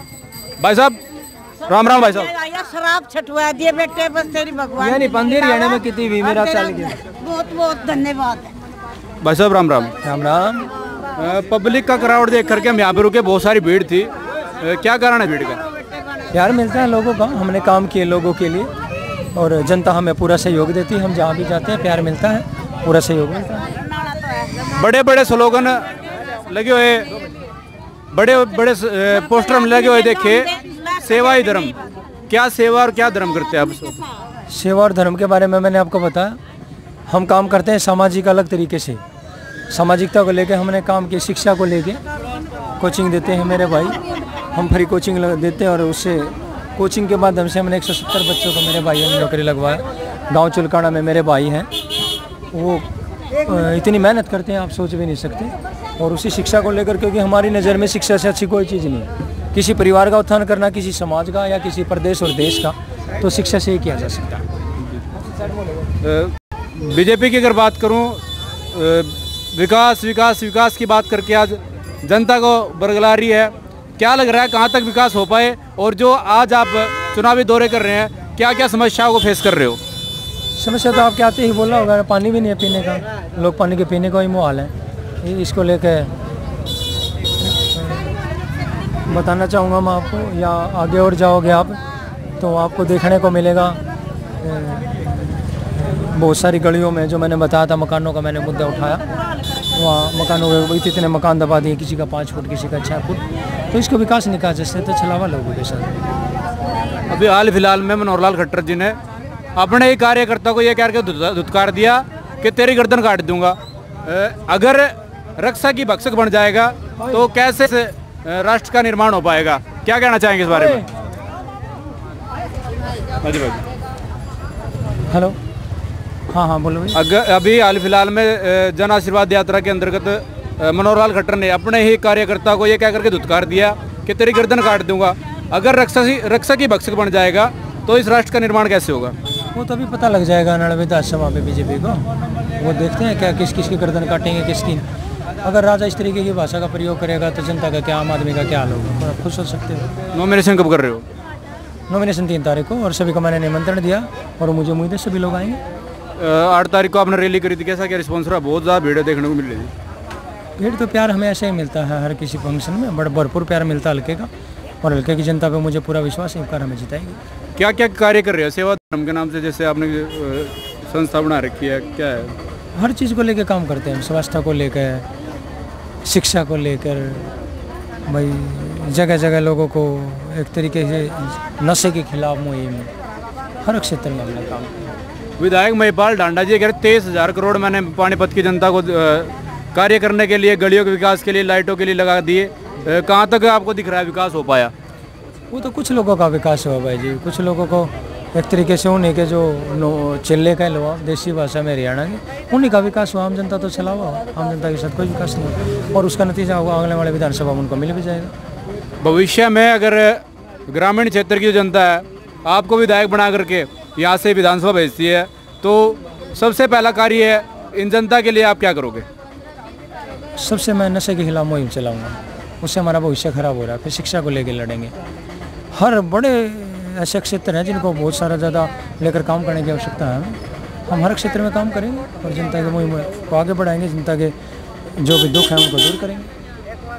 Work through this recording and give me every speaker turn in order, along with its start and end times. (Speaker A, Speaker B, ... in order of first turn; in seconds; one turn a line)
Speaker A: 0.6-1.0
Speaker A: 1.6-2.6
Speaker B: 2.6-5.7
Speaker C: 4.8-7.0
Speaker B: 6.3-8.4
Speaker A: 9.2-9.9
Speaker C: 10.0-10.7
Speaker A: 11.1-15.6
Speaker C: 16.3-18.7
Speaker C: 19.3-23.8
Speaker A: 24.7-27.1
Speaker A: 28.1-34.0
Speaker C: 34.5-36.4
Speaker C: 37.1-39.0
Speaker C: 39.7-42.0
Speaker C: 42.8-44.0
Speaker C: 44.5-51.7
Speaker C: 52.5-64.4
Speaker A: 66.0-79.8
Speaker C: 80.5-86.1
Speaker C: 87.5-88.2
Speaker C: 89.0-91.8
Speaker C: 92.4-93.8
Speaker C: 94.4-99.1
Speaker C: 99.7-106.0
Speaker A: 107.1-109.0
Speaker A: 109.5-120.9
Speaker A: 123.2-123.6
Speaker C: 125.1-125.4
Speaker C: 126.3-127.0
Speaker A: 126.9-139.2
Speaker C: 139.5-144.8
Speaker C: 145.4-149.9
Speaker A: 150.1-151.1
Speaker C: 151.9-155.6
Speaker A: 156.2-159.7
Speaker C: 160.6-164.3
Speaker C: 164.8-167.2
Speaker A: 167.6-172.3
Speaker C: 172.7-175.1
Speaker C: 176.0-177.3
Speaker C: 178.1-182.9
Speaker C: 183.6-184.9
Speaker A: 185.4-194.7
Speaker C: 195.5-208.3
Speaker A: 209.0-219.1
Speaker C: 220.4-224.9
Speaker C: 225.7-234.3
Speaker C: 234.9-236.3